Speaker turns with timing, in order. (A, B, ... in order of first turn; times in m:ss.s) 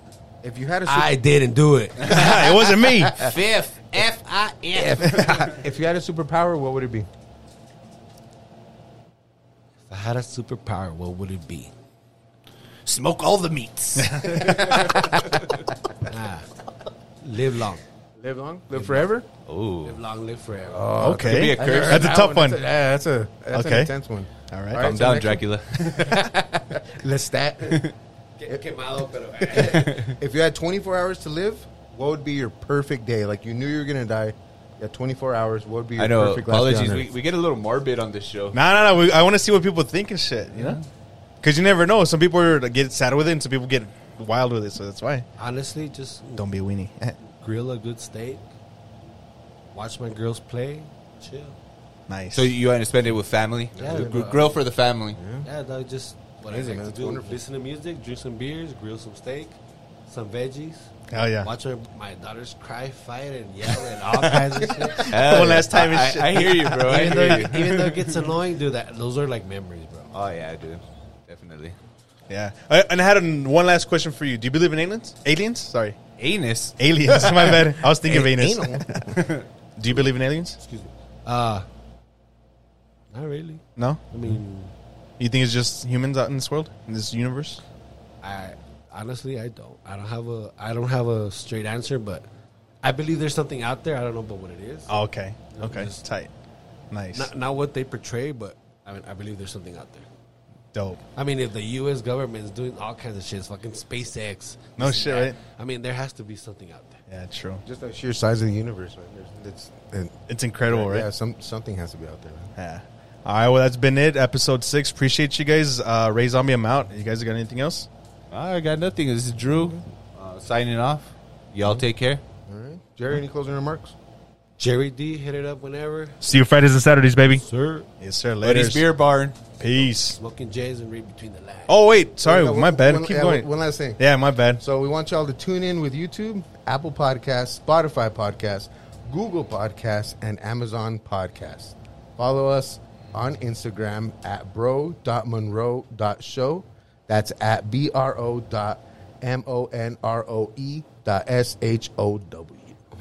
0:00.4-0:01.2 A
0:00.8-0:02.6 B
0:02.0-0:02.4 C
0:02.0-0:03.4 D
0:03.1-0:05.6 C
0:04.7-0:07.1 A
0:09.9-0:11.7 B
0:12.8-0:15.2 C
0:14.0-0:15.2 D
0:16.1-0:16.5 B
0:17.2-0:17.8 B
0:18.2-0:19.3 A
0:19.5-0:20.0 C
0:19.8-0:21.1 B
0:20.7-0:27.8 A
0:21.0-0:22.6 D
0:21.1-0:22.2 C
0:23.5-0:23.9 D
0:24.5-0:25.0 D
0:24.8-0:26.3 C
0:27.7-0:27.9 C
0:28.4-0:30.1 B
0:29.4-0:37.0 A
0:29.7-0:30.2 C
0:36.0-0:38.6 C
0:38.5-0:40.8 D
0:40.5-0:40.8 C
0:41.4-0:45.3 D
0:45.4-0:46.4 B
0:46.4-0:47.2 D
0:47.3-0:48.5 B
0:49.7-0:51.6 B
0:52.1-0:52.5 D
0:52.3-0:55.2 C
0:53.8-0:54.4 B
0:53.8-0:54.6 A
0:55.2-0:55.5 A
0:55.4-0:59.6 B
0:56.5-0:57.4 A
1:00.1-1:05.6 B
1:01.1-1:01.5 D
1:04.8-1:07.5 D
1:05.0-1:08.3 C
1:06.3-1:10.1 B
1:10.1-1:11.8 C
1:12.3-1:16.0 D
1:16.2-1:16.8 C
1:16.8-1:19.2 D
1:17.1-1:19.0 A
1:19.1-1:19.5 C
1:19.8-1:20.6 D
1:20.6-1:21.6 B
1:23.1-1:24.7 B
1:25.2-1:27.6 D
1:28.2-1:32.2 B
1:32.8-1:34.9 B
1:34.9-1:36.3 D
1:35.5-1:36.0 B
1:36.9-1:37.3 D
1:37.1-1:40.1 B
1:40.7-1:41.0 D
1:41.2-1:47.0 B
1:44.8-1:45.4 D
1:47.1-1:47.6 D
1:47.6-1:52.5 A
1:50.3-1:51.1 D
1:52.6-1:57.9 D
1:58.3-2:02.2 C
2:02.5-2:03.9 A
2:04.6-2:06.2 B
2:06.2-2:07.4 D
2:07.4-2:07.9 B
2:08.0-2:08.8 D
2:08.4-2:09.4 C
2:09.6-2:10.2 D
2:09.6-2:11.8 B
2:11.7-2:14.6 D
2:12.2-2:14.1 A
2:14.6-2:32.8 A